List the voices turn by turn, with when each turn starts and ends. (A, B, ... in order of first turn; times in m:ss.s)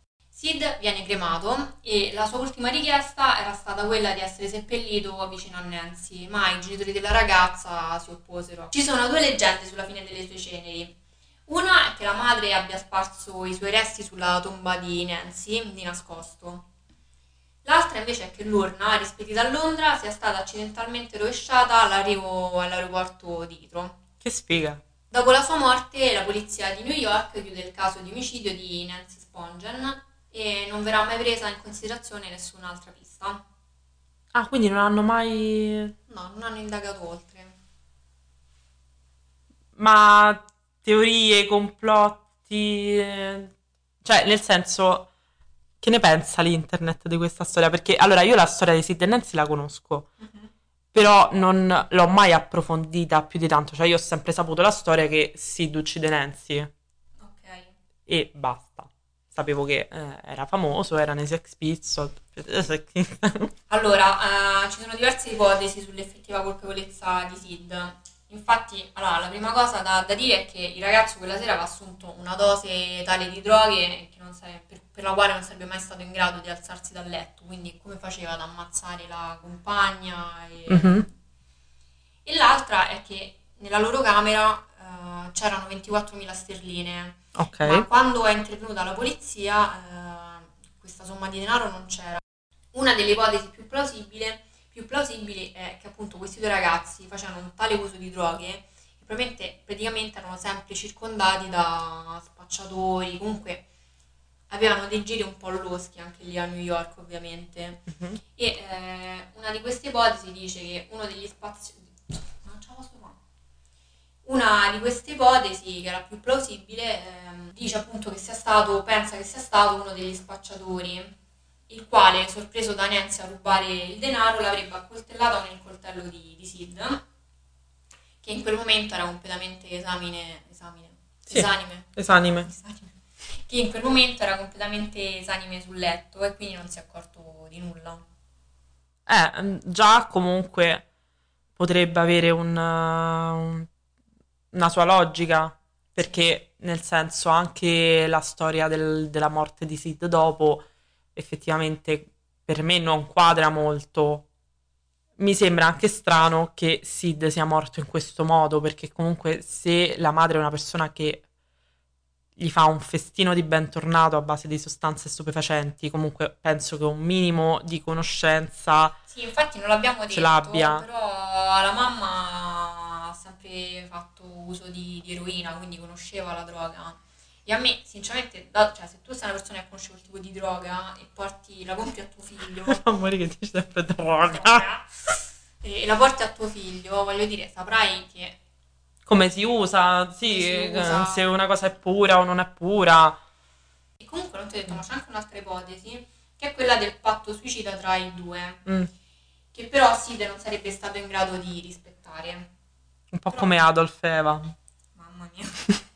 0:00.3-0:11.0 A
0:11.5-0:16.6 A
0:17.6-0:24.0 A
0:24.2-0:24.8 B
0:25.1-0:33.4 A
0:34.3-0:35.9 B
0:36.1-0:37.5 A
0:39.8-0:43.5 B
0:44.0-0:45.1 B
0:45.8-0:50.1 B
0:50.2-0:50.5 A
0:50.9-0:56.7 B
0:57.2-0:57.8 A
0:58.1-1:03.5 B
1:03.7-1:21.1 A
1:20.7-1:21.0 B
1:22.2-1:32.2 A
1:27.4-1:27.8 B
1:32.7-1:43.6 A
1:44.5-1:53.2 A
1:47.9-1:48.2 B
1:54.2-2:01.1 A
2:01.7-2:07.0 A
2:08.2-2:18.0 A
2:11.3-2:12.5 B
2:19.0-2:20.8 B
2:21.6-2:23.7 B
2:24.5-2:34.3 B
2:35.2-2:41.2 B
2:42.4-2:49.0 B
2:49.1-3:02.8 A
2:50.1-2:50.8 B
3:02.6-3:04.6 B
3:04.3-3:04.9 A
3:05.6-3:08.4 A
3:09.0-3:13.2 B
3:10.2-3:11.2 A
3:14.0-3:18.6 A
3:19.5-3:22.5 A
3:23.1-3:24.5 B
3:23.3-3:23.6 A
3:24.9-3:25.8 A